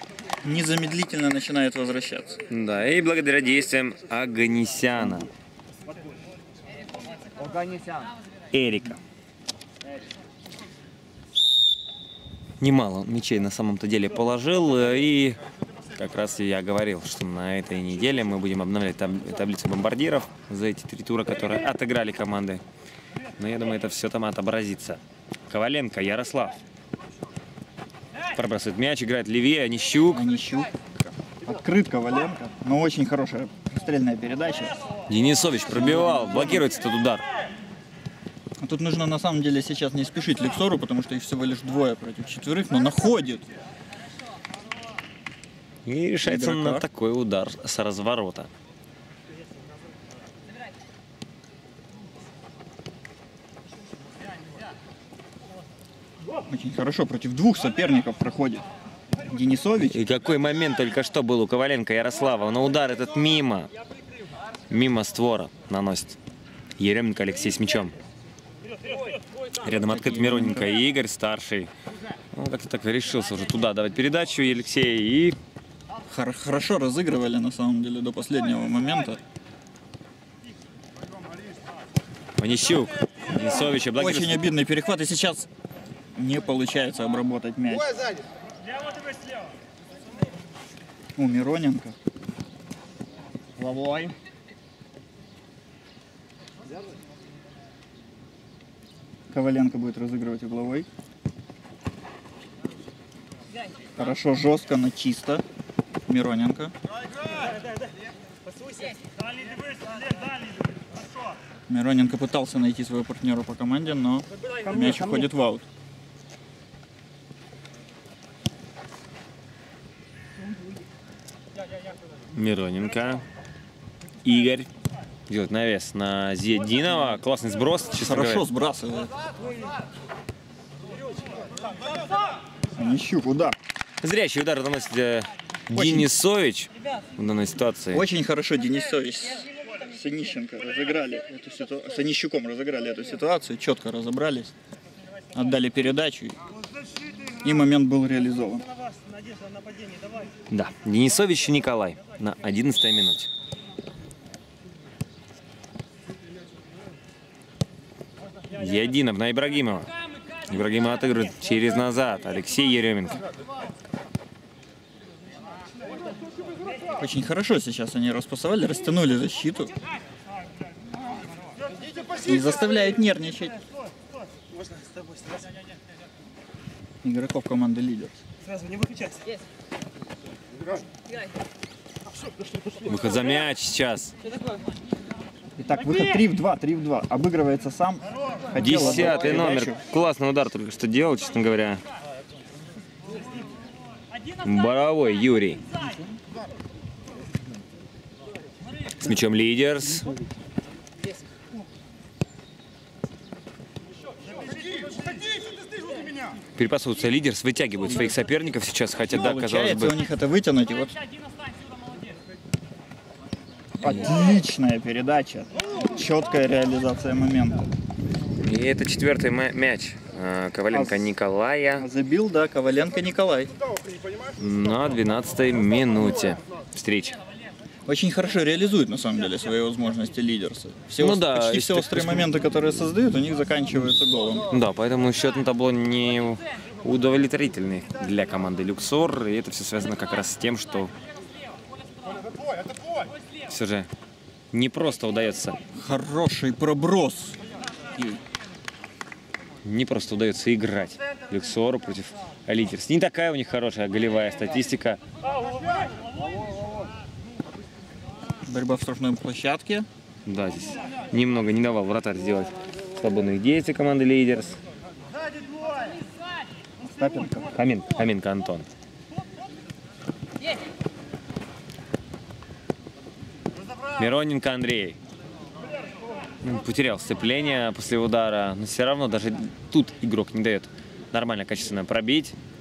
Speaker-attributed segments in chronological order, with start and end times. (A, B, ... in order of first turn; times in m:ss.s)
0:00.4-0:02.4 A
0:02.5-0:05.3 B
0:08.5-0:09.0 B
0:12.6-0:15.4 B
0:15.9-0:22.6 B
0:23.4-0:26.6 B
0:28.3-0:30.2 B
0:30.1-0:34.8 A
0:35.1-0:37.2 B
0:35.7-0:36.6 A
0:38.6-0:43.4 A
0:45.8-0:48.5 B
0:46.2-0:46.8 A
0:56.5-0:58.6 A
0:59.3-1:00.0 A
0:59.9-1:03.7 B
1:04.7-1:06.2 B
1:06.8-1:07.9 B
1:09.6-1:11.7 B
1:09.8-1:10.7 A
1:12.3-1:15.4 B
1:16.1-1:19.2 A
1:22.4-1:24.5 B
1:23.9-1:25.5 A
1:26.1-1:28.1 A
1:31.2-1:32.0 A
1:33.6-1:34.1 A
1:39.3-1:40.9 A
1:43.9-1:45.4 A
1:46.1-1:46.7 A
1:51.7-1:55.6 A
2:02.3-2:03.2 B
2:04.2-2:04.7 B
2:05.3-2:08.4 B
2:07.9-2:09.1 A
2:12.7-2:13.6 A
2:14.0-2:18.0 B
2:15.7-2:16.1 A
2:17.9-2:24.5 A
2:25.3-2:26.4 A
2:27.4-2:28.7 A
2:30.5-2:33.3 B
2:38.5-2:39.9 B
2:40.4-2:43.2 B
2:47.0-2:49.7 A
2:52.2-2:53.6 A
2:57.0-2:58.2 A
3:02.9-3:04.1 B
3:05.6-3:09.8 A
3:08.6-3:11.8 B
3:14.4-3:15.7 B
3:19.0-3:20.2 B
3:26.6-3:29.9 B
3:29.1-3:31.0 A
3:33.8-3:37.7 A
3:38.4-3:41.9 B
3:40.7-3:41.1 A
3:41.8-3:43.5 A
3:44.4-3:47.2 B
3:47.8-3:54.5 A
3:51.0-3:52.4 B
3:54.5-4:00.9 B
4:03.5-4:03.9 B
4:04.5-4:05.6 B
4:05.7-4:07.4 A
4:07.9-4:08.2 A
4:09.6-4:15.0 B
4:18.4-4:19.9 A
4:20.2-4:24.6 B
4:26.8-4:27.5 A
4:27.5-4:28.7 B
4:34.0-4:35.0 B
4:36.4-4:42.3 B